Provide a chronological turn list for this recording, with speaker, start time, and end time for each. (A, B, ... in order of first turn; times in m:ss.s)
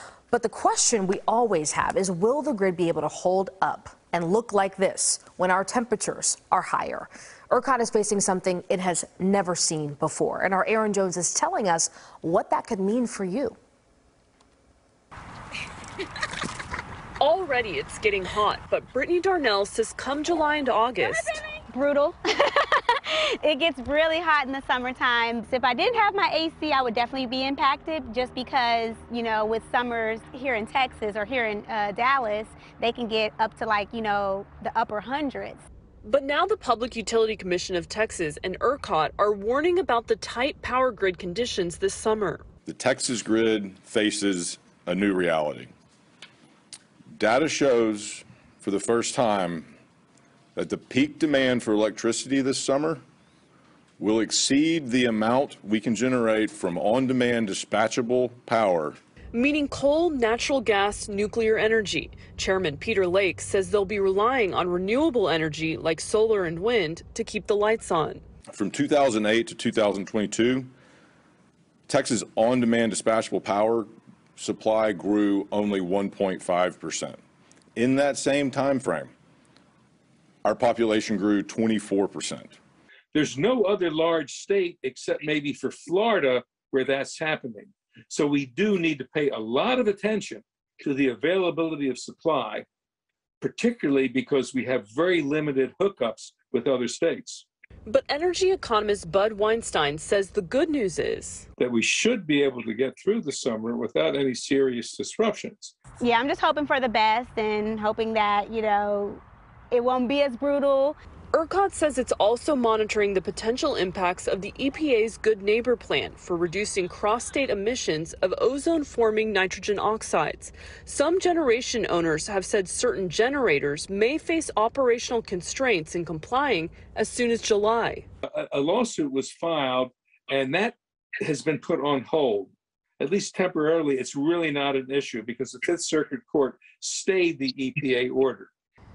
0:00.3-0:13.6 A
0:17.2-0:21.4 B
0:21.0-0:35.6 C
0:36.0-0:42.4 B
0:42.6-0:45.7 D
0:47.1-0:49.7 D
0:50.6-0:53.0 D
0:54.0-0:59.0 D
0:59.3-1:08.2 B
1:08.5-1:10.7 D
1:11.9-1:17.2 D
1:17.8-1:19.1 D
1:20.4-1:22.6 D
1:23.1-1:32.6 E
1:33.4-1:37.4 E
1:37.8-1:41.4 B
1:41.6-1:45.7 E
1:46.0-1:51.0 C
1:51.3-2:08.0 B
2:08.2-2:18.5 E